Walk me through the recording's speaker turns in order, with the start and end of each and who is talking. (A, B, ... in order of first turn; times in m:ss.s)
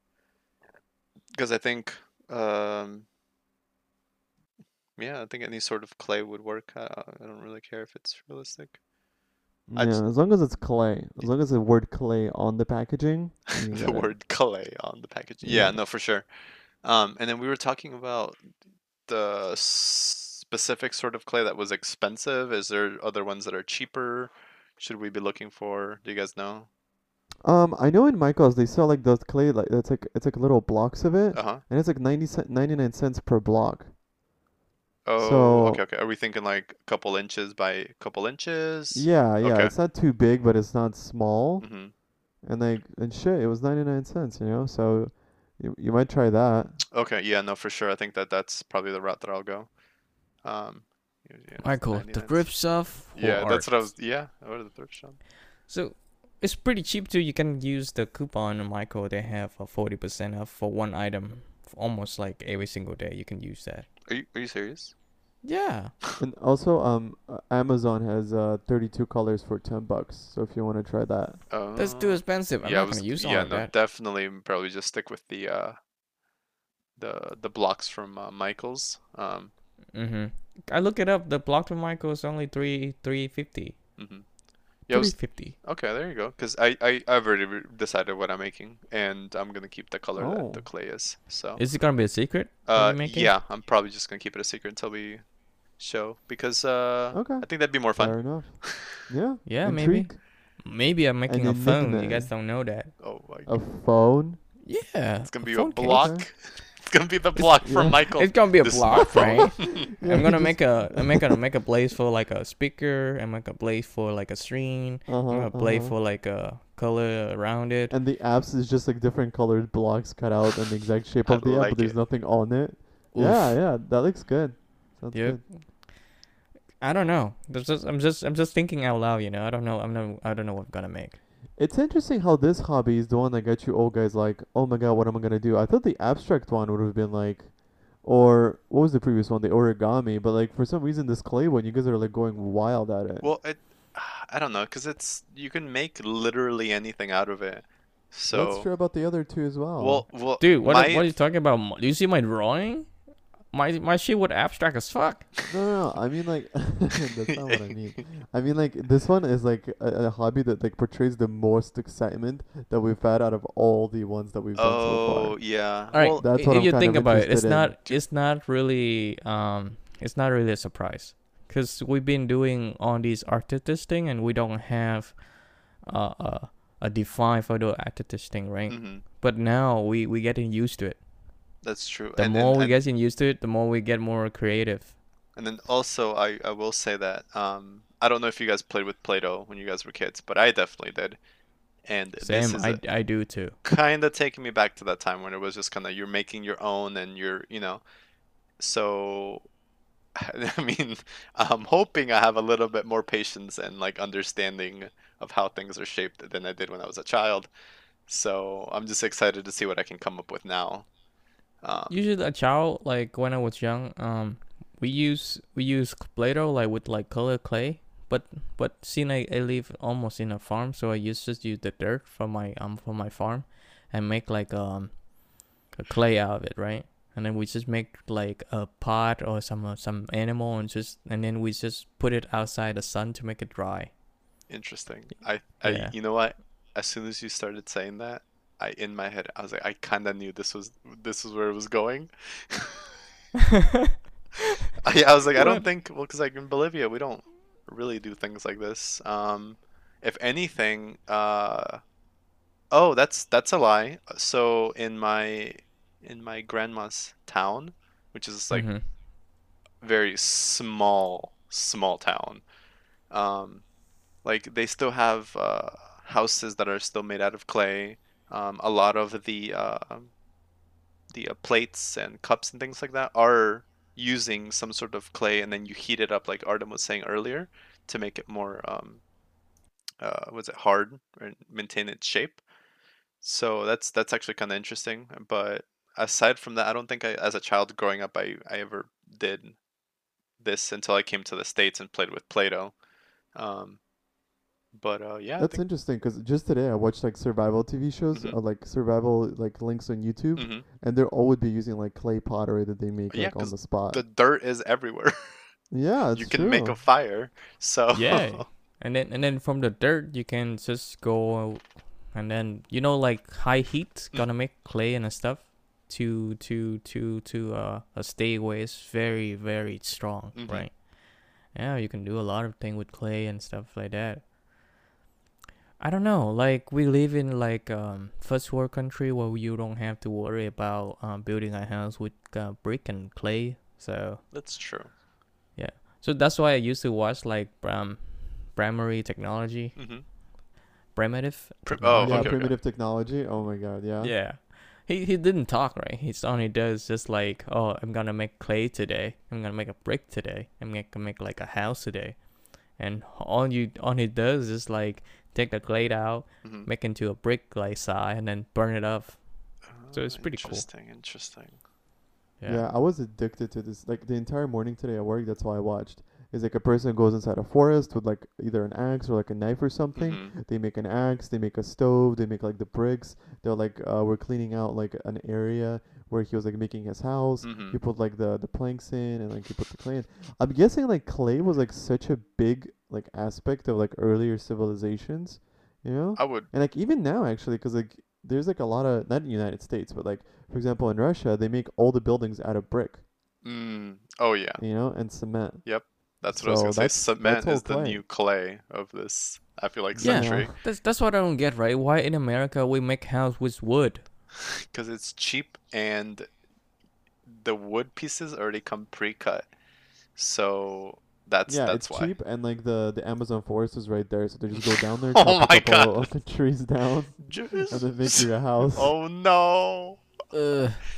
0:01.3-0:03.1 A
0:05.0-0:08.8 A
0:09.7-0:14.2 B
0:09.8-0:10.5 A
0:13.6-0:18.5 A
0:15.4-0:15.8 B
0:19.1-0:26.7 A
0:27.4-0:33.9 B
0:31.3-0:31.6 A
0:35.0-0:39.7 A
0:35.2-0:35.8 B
0:38.9-0:46.8 B
0:41.6-0:41.9 A
0:46.9-0:49.8 A
0:50.4-0:55.2 A
0:51.6-0:53.9 C
0:55.7-1:03.9 C
1:04.1-1:05.0 A
1:05.4-1:06.0 C
1:06.2-1:11.5 B
1:11.5-1:15.8 A
1:11.8-1:13.7 C
1:17.0-1:19.5 A
1:19.9-1:24.0 C
1:24.0-1:38.9 A
1:24.9-1:25.6 C
1:30.2-1:30.7 B
1:31.6-1:33.4 C
1:37.1-1:40.3 B
1:39.4-1:43.0 C
1:41.3-1:42.3 B
1:43.0-1:43.6 A
1:43.4-1:44.4 B
1:44.6-1:46.2 C
1:45.2-1:49.9 A
1:45.8-1:46.3 B
1:47.6-1:48.3 B
1:48.1-1:58.0 C
1:49.6-1:51.4 B
1:55.1-1:56.0 B
1:57.9-2:05.5 B
2:01.2-2:02.0 A
2:03.1-2:03.6 C
2:05.1-2:06.1 C
2:06.8-2:11.2 C
2:11.6-2:23.3 B
2:23.2-2:28.7 A
2:28.3-2:30.1 B
2:29.8-2:31.2 A
2:30.4-2:35.4 C
2:35.5-2:47.8 B
2:37.5-2:38.0 A
2:44.6-2:46.3 A
2:45.9-3:01.1 C
2:58.7-2:59.0 A
3:01.6-3:02.8 A
3:02.2-3:05.0 C
3:05.4-3:11.2 A
3:11.8-3:17.8 A
3:12.2-3:13.6 C
3:18.6-3:19.5 A
3:20.2-3:27.5 A
3:28.1-3:30.9 A
3:31.6-3:32.0 A
3:31.9-3:53.9 C
3:54.5-4:02.8 A
3:55.6-3:56.0 C
4:04.8-4:11.8 A
4:05.4-4:05.7 C
4:12.7-4:18.9 A
4:18.5-4:18.9 C
4:19.8-4:22.5 A
4:23.1-4:23.7 A
4:24.2-4:30.2 A
4:31.1-4:39.1 A
4:40.0-4:42.4 A
4:43.2-4:49.6 A
4:50.4-4:52.8 A
4:53.3-4:53.8 A
4:54.7-4:55.6 A
4:55.4-5:04.0 B
4:58.1-4:58.4 A
5:00.4-5:00.6 A
5:03.1-5:05.4 A
5:05.7-5:06.8 B
5:06.1-5:08.5 A
5:07.9-5:24.3 C
5:20.4-5:20.7 A
5:25.8-5:34.3 C
5:34.3-5:34.9 A
5:35.6-5:40.1 C
5:39.8-5:40.1 A
5:40.9-5:42.4 C
5:41.6-5:42.6 A
5:42.0-5:44.2 B
5:44.0-6:00.7 C
5:56.4-5:56.7 A
5:59.7-6:01.6 A
6:02.4-6:02.6 C
6:02.5-6:33.0 B
6:10.0-6:10.3 A
6:17.4-6:17.8 A
6:26.2-6:26.5 A
6:33.4-6:40.5 A
6:34.6-6:38.0 B
6:40.0-6:40.6 B
6:40.0-6:44.1 C
6:44.7-6:46.3 A
6:47.3-6:49.5 A
6:50.2-6:52.1 A
6:51.5-6:58.9 B
6:54.6-6:56.2 A
6:57.2-7:00.0 A
7:00.3-7:00.8 C